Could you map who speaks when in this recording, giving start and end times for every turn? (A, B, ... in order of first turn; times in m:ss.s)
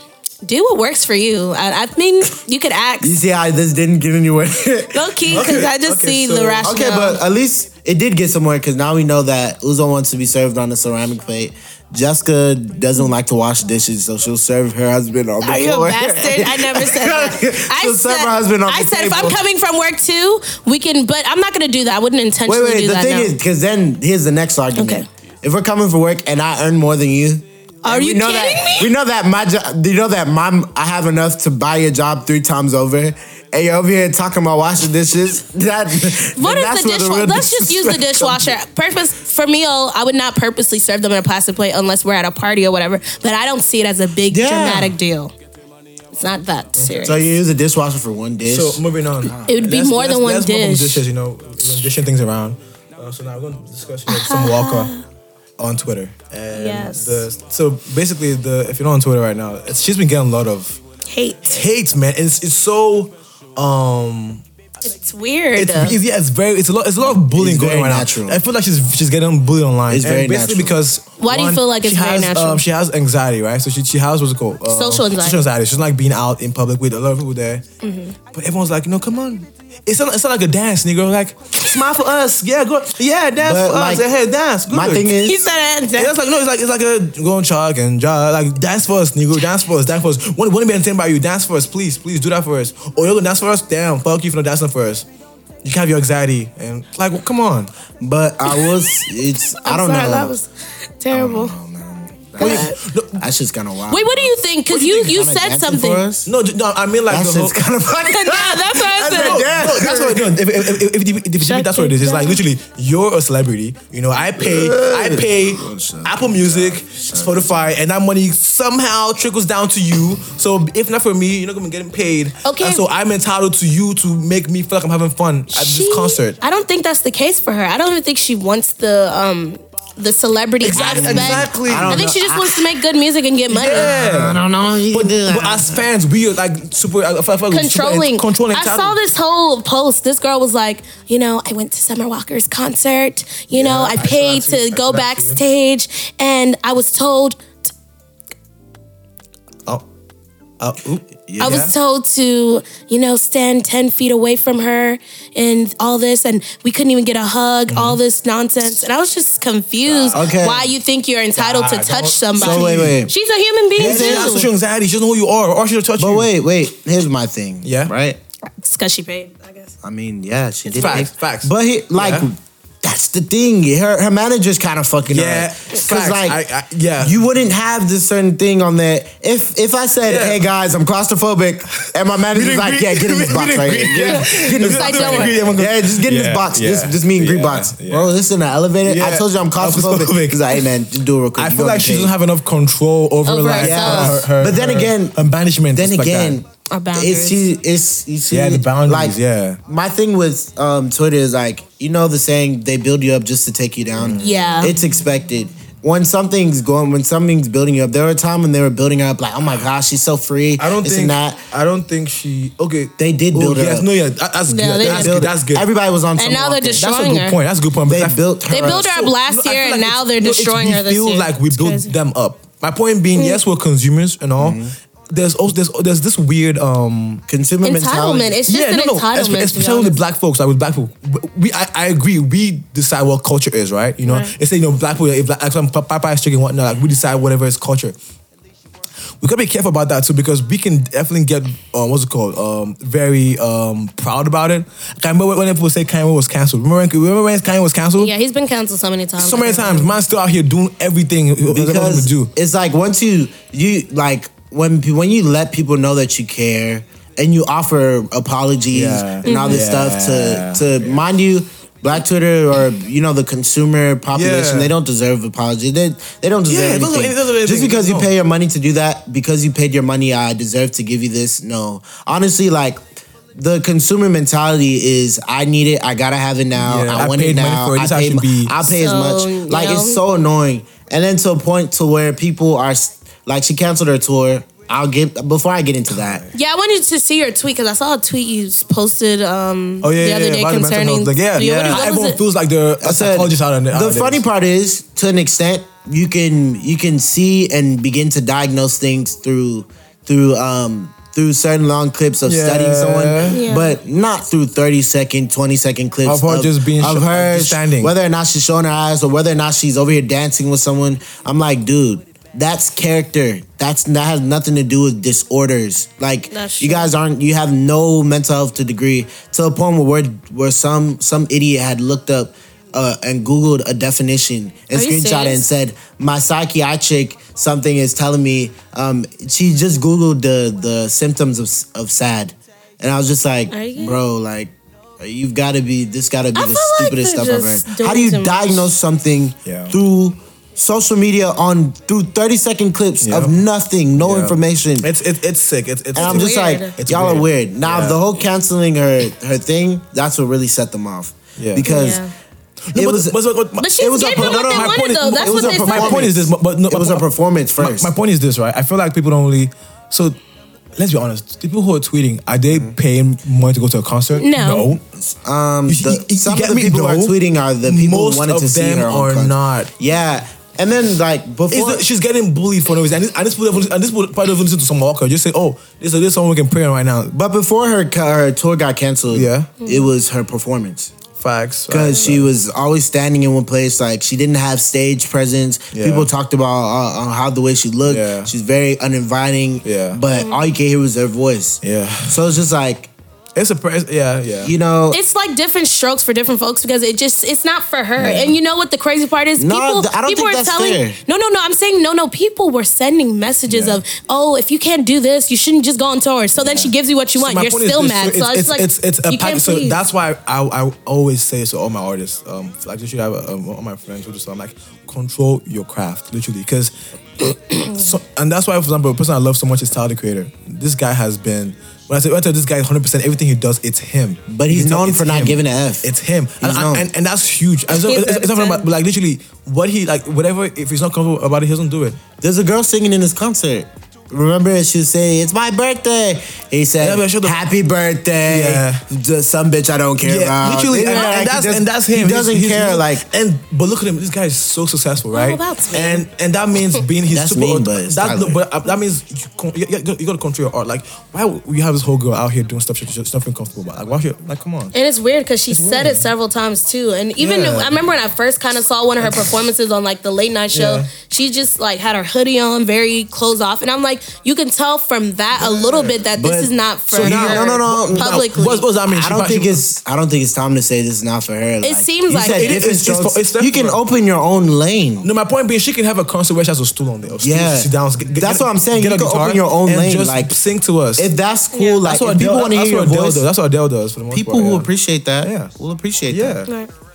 0:00.4-0:03.2 A
0:03.0-0:05.2 B
0:04.9-0:07.2 A
0:05.3-0:06.7 C
0:06.6-0:19.4 B
0:15.4-0:23.4 A
0:22.5-0:38.6 B
0:24.8-0:25.1 A
0:27.8-0:28.9 A
0:36.2-0:45.3 A
0:44.3-0:45.0 B
0:46.2-0:47.3 A
0:47.0-0:49.5 B
0:48.4-0:54.9 C
0:49.4-0:51.0 A
0:54.1-0:55.0 A
0:55.6-1:00.8 C
0:56.5-0:57.3 A
1:01.1-1:01.6 A
1:01.5-1:04.4 C
1:04.8-1:06.0 A
1:05.6-1:17.6 C
1:07.1-1:08.4 B
1:09.9-1:10.8 B
1:11.2-1:12.6 A
1:14.7-1:15.4 A
1:17.8-1:18.2 A
1:18.3-1:25.1 C
1:23.4-1:24.1 B
1:24.7-1:25.5 B
1:25.2-1:26.1 A
1:26.0-1:35.1 C
1:35.6-1:37.7 C
1:38.0-1:40.3 B
1:39.6-1:41.6 A
1:41.1-1:46.3 B
1:42.4-1:43.2 C
1:42.4-1:42.8 A
1:43.9-1:46.0 A
1:46.3-1:47.6 C
1:47.1-1:50.6 B
1:48.0-1:49.5 A
1:49.1-2:06.4 C
1:51.4-1:52.4 A
1:54.3-1:57.8 B
2:02.4-2:02.8 A
2:05.5-2:13.9 A
2:10.6-2:12.1 C
2:10.7-2:12.8 B
2:13.5-2:19.0 C
2:13.7-2:15.9 B
2:17.5-2:27.7 A
2:23.5-2:25.4 C
2:30.6-2:31.7 C
2:31.3-2:31.7 B
2:31.4-2:44.5 A
2:37.7-2:38.0 C
2:39.8-2:40.4 C
2:40.1-2:40.7 B
2:41.4-2:43.0 C
2:42.4-2:43.1 B
2:43.8-2:44.4 B
2:43.8-2:46.3 C
2:46.0-2:48.2 B
2:47.6-2:47.9 C
2:48.6-2:49.8 A
2:49.8-2:56.4 B
2:50.7-2:52.3 C
2:55.1-2:57.2 C
2:57.0-3:12.1 B
3:00.0-3:00.4 C
3:01.8-3:08.1 C
3:04.0-3:05.4 A
3:08.8-3:10.7 C
3:11.4-3:16.4 C
3:13.2-3:14.2 A
3:13.6-3:15.2 B
3:15.7-3:31.5 B
3:16.7-3:17.5 A
3:18.3-3:19.6 C
3:24.0-3:24.5 C
3:24.2-3:24.8 A
3:30.6-3:35.7 C
3:33.0-3:33.9 B
3:34.5-3:35.2 A
3:34.8-3:36.9 B
3:36.2-3:37.4 A
3:36.8-3:47.2 C
3:37.9-3:38.9 B
3:38.5-3:41.9 A
3:43.2-3:43.4 A
3:44.4-3:44.7 B
3:47.3-3:48.4 B
3:47.6-3:50.0 A
3:48.5-3:58.0 C
3:54.0-3:54.3 A
3:59.2-4:08.1 C
4:08.0-4:09.9 A
4:09.2-4:12.3 C
4:11.5-4:32.8 B
4:18.7-4:21.0 C
4:19.2-4:19.6 A
4:24.1-4:24.7 C
4:26.5-4:28.1 C
4:33.4-4:46.3 B
4:36.6-4:38.7 C
4:38.7-4:40.0 A
4:46.0-4:46.3 C
4:46.3-4:52.2 A
4:49.8-4:54.2 C
4:52.8-5:44.9 B
5:02.2-5:03.4 C
5:03.3-5:03.8 A
5:06.0-5:07.9 C
5:16.3-5:16.9 A
5:24.7-5:25.5 A
5:33.5-5:34.0 A
5:36.4-5:38.7 A
5:39.4-5:39.8 C
5:43.0-5:43.4 C
5:44.0-5:48.0 C
5:46.0-5:52.0 B
5:46.0-5:46.7 A
5:51.4-5:51.7 C
5:51.6-5:52.1 A
5:52.7-5:57.1 C
5:52.8-5:53.2 B
5:53.6-5:56.1 A
5:53.8-5:57.9 B
5:57.6-6:00.2 C
6:00.8-6:04.8 C
6:04.2-6:04.7 A
6:04.9-6:11.8 B
6:05.7-6:09.7 C
6:11.5-6:17.2 C
6:17.1-6:20.9 B
6:19.1-6:19.7 C
6:19.6-6:19.9 A
6:21.2-6:22.3 C
6:21.7-6:32.9 B
6:25.7-6:26.1 C
6:27.8-6:28.3 C
6:29.6-6:30.0 C
6:30.1-6:30.4 A
6:31.6-6:32.3 C
6:33.4-6:34.5 C
6:34.4-6:35.0 B
6:34.9-6:49.8 A
6:38.0-6:38.4 B
6:39.4-6:41.0 B
6:43.5-6:43.8 C
6:46.4-7:12.0 C
6:57.6-6:57.8 A
7:04.3-7:05.9 B
7:06.4-7:06.9 B
7:07.7-7:08.7 A
7:12.2-7:23.0 B
7:16.8-7:17.4 C
7:18.3-7:18.8 C
7:20.0-7:34.7 C
7:20.9-7:21.2 A
7:25.1-7:26.0 A
7:27.1-7:28.4 B
7:34.7-7:48.7 A
7:35.5-7:36.1 C
7:37.2-7:37.8 C
7:39.0-7:39.3 C
7:40.5-7:40.9 C
7:45.4-7:46.0 C
7:46.1-7:48.2 B
7:46.9-7:49.6 C
7:48.8-7:55.1 B
7:51.6-7:52.6 A
7:52.2-7:53.8 C
7:55.0-8:01.1 C
7:57.2-8:00.3 B
8:01.0-8:03.3 B
8:01.5-8:01.8 A
8:01.8-8:04.7 C
8:04.1-8:06.4 B
8:05.2-8:05.5 C
8:06.1-8:06.5 C